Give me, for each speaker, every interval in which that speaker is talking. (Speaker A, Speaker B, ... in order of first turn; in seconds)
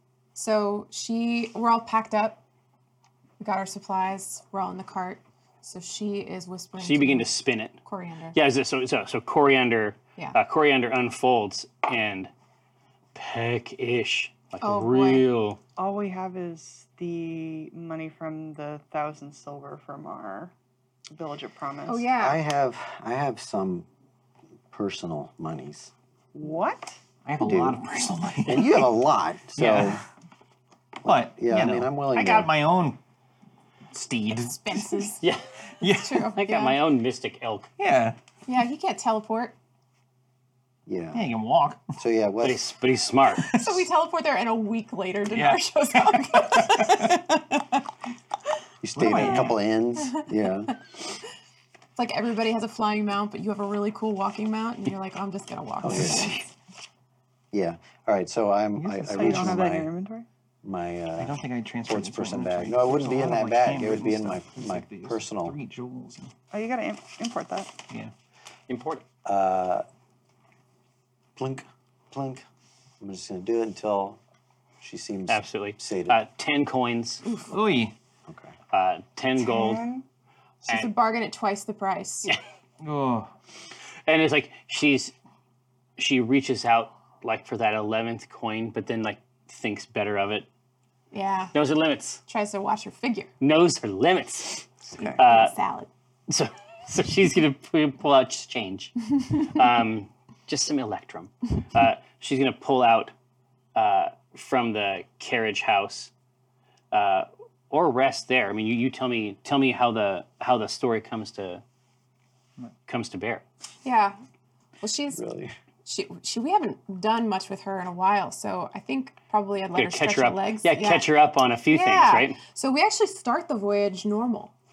Speaker A: 0.3-2.4, 3.4-8.3, 14.6-15.3, 21.9-22.4, 34.5-35.2, 35.8-36.8, 38.5-39.5, 43.5-47.8, 50.0-50.7, 52.0-56.4, 77.2-77.5, 80.6-82.3, 91.1-91.5, 92.3-93.3, 94.9-95.9, 113.8-114.2, 114.8-115.2, 115.8-121.1, 121.7-124.5
Speaker B: 6.8-7.8, 8.3-12.3, 13.1-15.6, 36.3-37.7, 42.4-43.5, 68.7-69.0, 75.3-77.2, 78.7-79.8, 80.7-80.9, 84.1-85.1, 86.0-90.5, 91.5-92.2, 93.4-95.5, 96.3-103.1, 103.7-106.1, 106.9-111.6, 112.9-113.4, 119.7-122.4
Speaker C: 15.8-20.5, 21.1-22.1, 26.3-27.0, 59.1-60.2, 66.5-67.8, 79.4-80.0
Speaker D: 22.1-23.9, 24.7-25.9, 27.4-27.8, 28.4-30.0, 31.0-32.5, 40.9-41.2, 42.0-42.7, 48.8-50.7, 55.8-56.4, 57.5-59.9, 60.6-65.5, 69.2-69.8, 71.3-72.4, 73.0-74.2, 74.8-76.2, 78.3-78.5, 115.1-115.5
Speaker E: 27.2-28.9, 29.5-30.0, 31.0-33.0, 33.9-35.1, 35.8-36.3, 37.8-38.2, 41.1-41.9, 43.4-43.8, 45.3-47.1, 48.9-49.6, 58.8-59.6, 61.2-66.3, 77.5-77.9, 82.8-83.3